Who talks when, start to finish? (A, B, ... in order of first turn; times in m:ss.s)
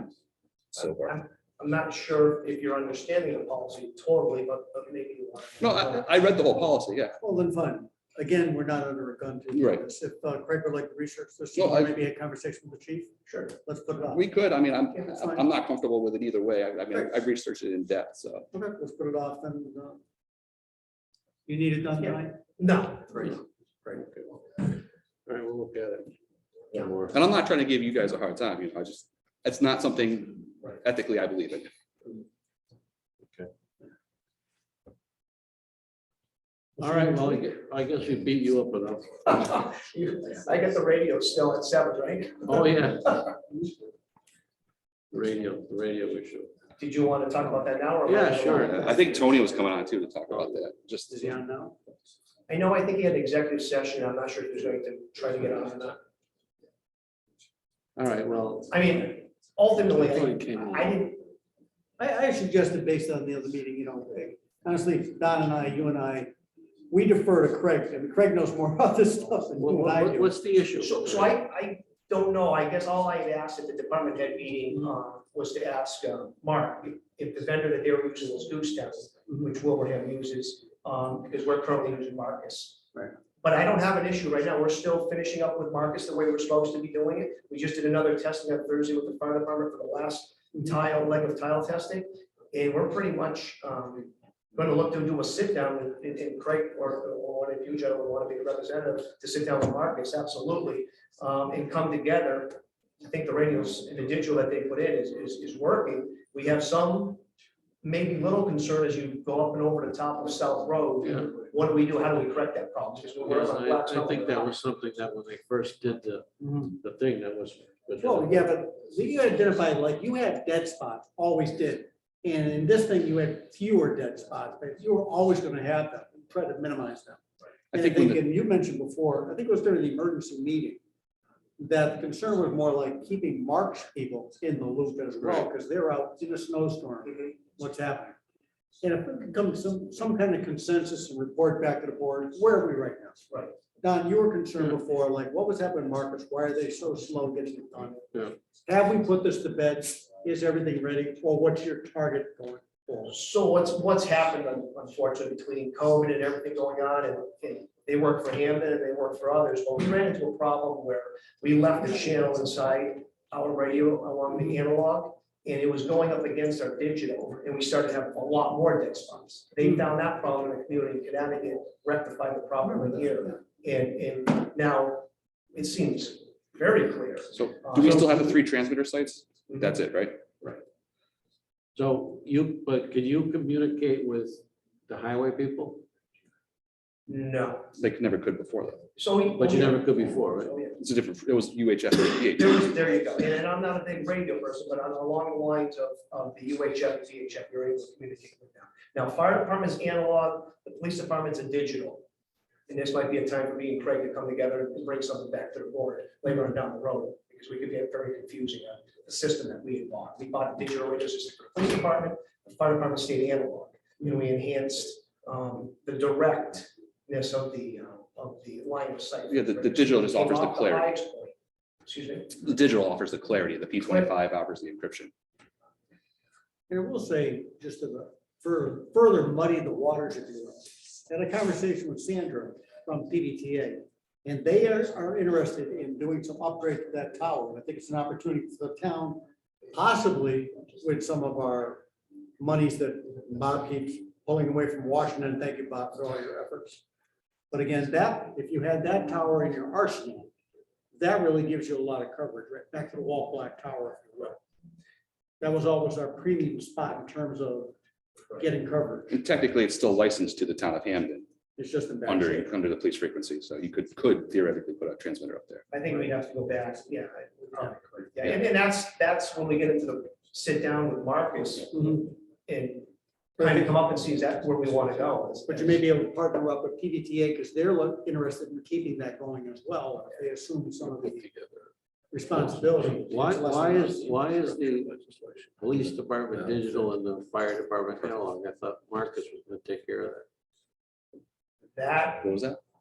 0:00.8-0:01.1 A
0:00.8-0:06.1 B
0:05.6-0:07.2 A
0:07.2-0:14.2 C
0:09.5-0:09.8 A
0:11.5-0:11.9 A
0:13.3-0:13.5 B
0:14.1-0:18.5 A
0:15.0-0:15.4 C
0:18.5-0:20.0 C
0:21.4-0:22.4 C
0:22.0-0:23.4 B
0:23.2-0:26.1 D
0:26.7-0:27.2 D
0:27.1-0:31.7 A
0:36.8-0:39.3 D
0:36.8-0:37.3 C
0:39.3-0:42.7 B
0:42.4-0:43.2 D
0:45.1-0:46.5 D
0:46.8-0:49.4 B
0:48.0-0:48.9 D
0:48.6-0:51.4 A
0:51.1-0:51.8 C
0:52.5-0:56.0 B
0:58.0-0:58.7 D
0:58.7-1:01.3 B
0:59.8-1:01.0 D
1:02.0-1:06.3 C
1:06.9-1:10.3 C
1:09.6-1:11.3 D
1:10.8-1:22.8 B
1:23.4-1:47.2 B
1:47.8-1:54.5 B
1:53.2-1:58.5 D
1:56.4-1:56.8 C
1:58.0-2:07.2 C
2:07.7-2:08.2 A
2:07.7-2:10.8 C
2:11.6-2:18.2 C
2:18.8-2:23.2 C
2:23.8-2:33.1 C
2:33.1-2:58.4 B
2:57.4-3:00.2 A
2:59.5-2:59.8 B
3:01.7-3:05.8 D
3:07.1-3:07.7 B
3:07.8-3:08.8 A
3:09.0-3:10.8 B
3:09.3-3:10.5 D
3:10.8-3:12.7 A
3:12.3-3:22.0 B
3:22.7-3:41.3 B
3:39.3-3:40.9 A
3:41.8-3:42.3 B
3:42.3-3:45.1 A
3:46.7-4:01.8 C
4:02.4-4:06.8 C
4:07.5-4:10.3 C
4:11.0-4:14.4 C
4:15.4-4:17.7 C
4:18.3-4:19.1 C
4:19.1-4:21.2 A
4:21.6-4:22.5 C
4:22.0-4:25.6 A
4:25.7-4:32.9 B
4:31.8-4:32.0 C
4:33.4-4:33.7 C
4:33.4-4:35.8 B
4:35.5-4:41.3 C
4:41.0-4:41.7 D
4:42.1-4:44.2 C
4:42.3-4:50.2 D
4:51.7-4:52.3 B
4:52.2-4:52.6 A